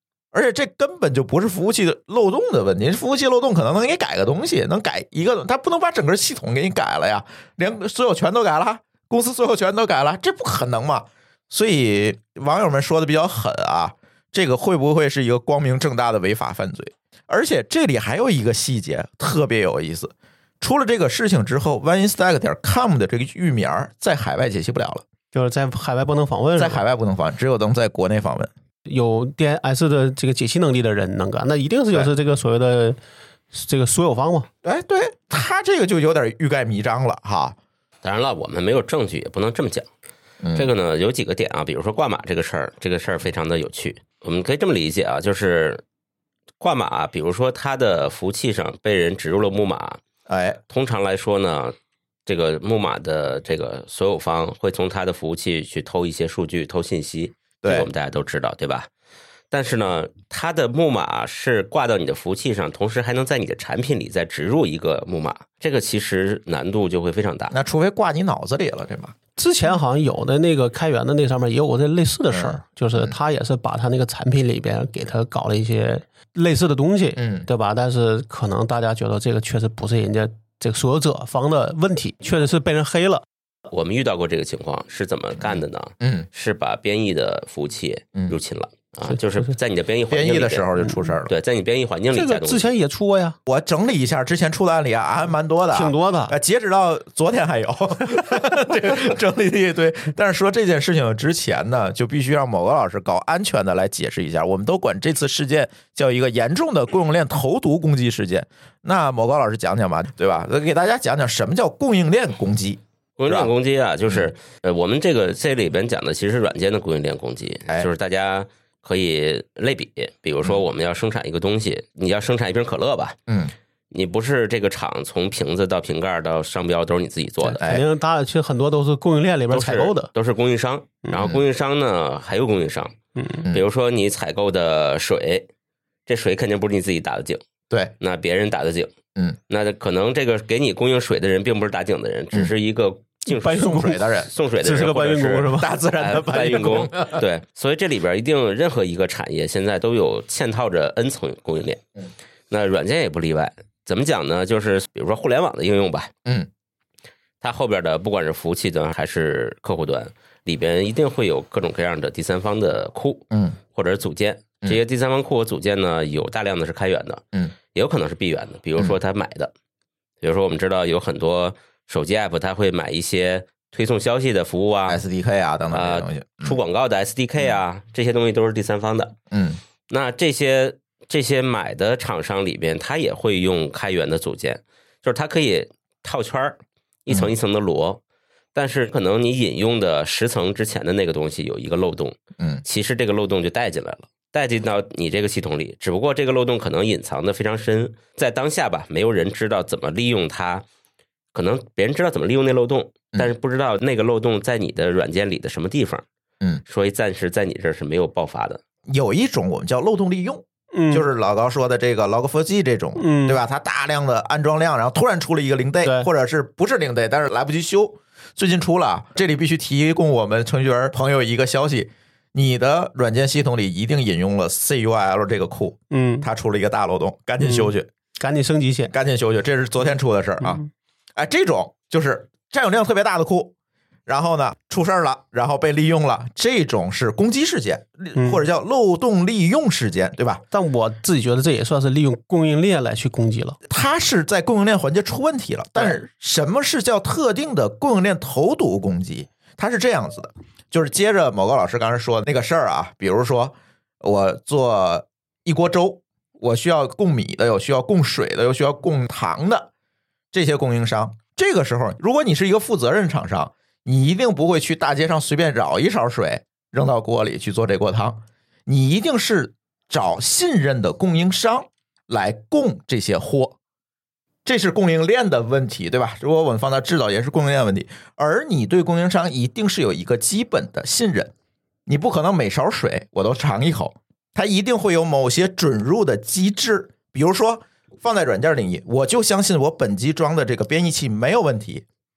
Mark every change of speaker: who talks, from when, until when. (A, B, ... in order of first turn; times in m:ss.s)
0:00.3-0:25.0 A
0:25.3-0:26.8 B
0:26.6-0:28.5 A
0:28.8-0:33.0 B
0:33.5-0:34.5 B
0:34.6-0:37.6 A
0:38.0-0:39.9 C
0:40.4-0:40.7 A
0:40.5-0:45.8 C
0:46.6-0:50.0 C
0:50.3-0:50.6 A
0:50.7-0:51.7 C
0:52.2-0:58.9 C
0:57.6-0:57.9 A
0:59.5-1:07.5 C
1:07.5-1:09.1 A
1:09.4-1:23.2 B
1:12.3-1:13.2 A
1:17.2-1:17.5 A
1:23.7-1:30.7 C
1:25.4-1:26.3 A
1:30.1-1:31.3 A
1:30.8-1:31.1 B
1:31.3-1:32.7 C
1:32.1-1:33.4 B
1:33.4-1:53.5 A
1:35.7-1:36.4 B
1:53.2-2:03.2 C
2:03.3-2:03.5 A
2:03.9-2:07.6 C
2:07.4-2:10.1 B
2:09.5-2:12.9 C
2:11.2-2:11.4 A
2:13.2-2:13.4 B
2:13.5-2:15.5 C
2:16.1-2:17.4 C
2:18.0-2:18.9 C
2:19.5-2:31.8 C
2:23.2-2:24.0 B
2:23.6-2:24.3 A
2:24.6-2:25.7 B
2:25.6-2:27.2 A
2:32.5-2:36.1 C
2:37.4-2:47.2 C
2:43.3-2:43.6 A
2:47.7-2:49.5 C
2:50.2-2:55.0 C
2:54.9-2:56.6 A
2:55.7-2:59.1 C
2:59.3-2:59.6 A
2:59.9-3:08.0 C
3:08.5-3:20.6 C
3:21.3-3:26.0 C
3:26.7-3:28.6 C
3:28.9-3:47.9 A
3:30.7-3:31.0 B
3:33.0-3:33.4 B
3:35.8-3:36.1 B
3:45.9-3:46.3 B
3:47.4-3:48.9 B
3:48.9-3:50.6 A
3:50.4-3:50.7 B
3:51.2-3:53.5 A
3:54.1-4:00.4 A
3:58.2-3:58.4 B
4:00.5-4:03.6 B
4:03.7-4:19.7 A
4:20.3-4:33.6 A
4:34.4-4:41.3 A
4:41.9-4:51.8 A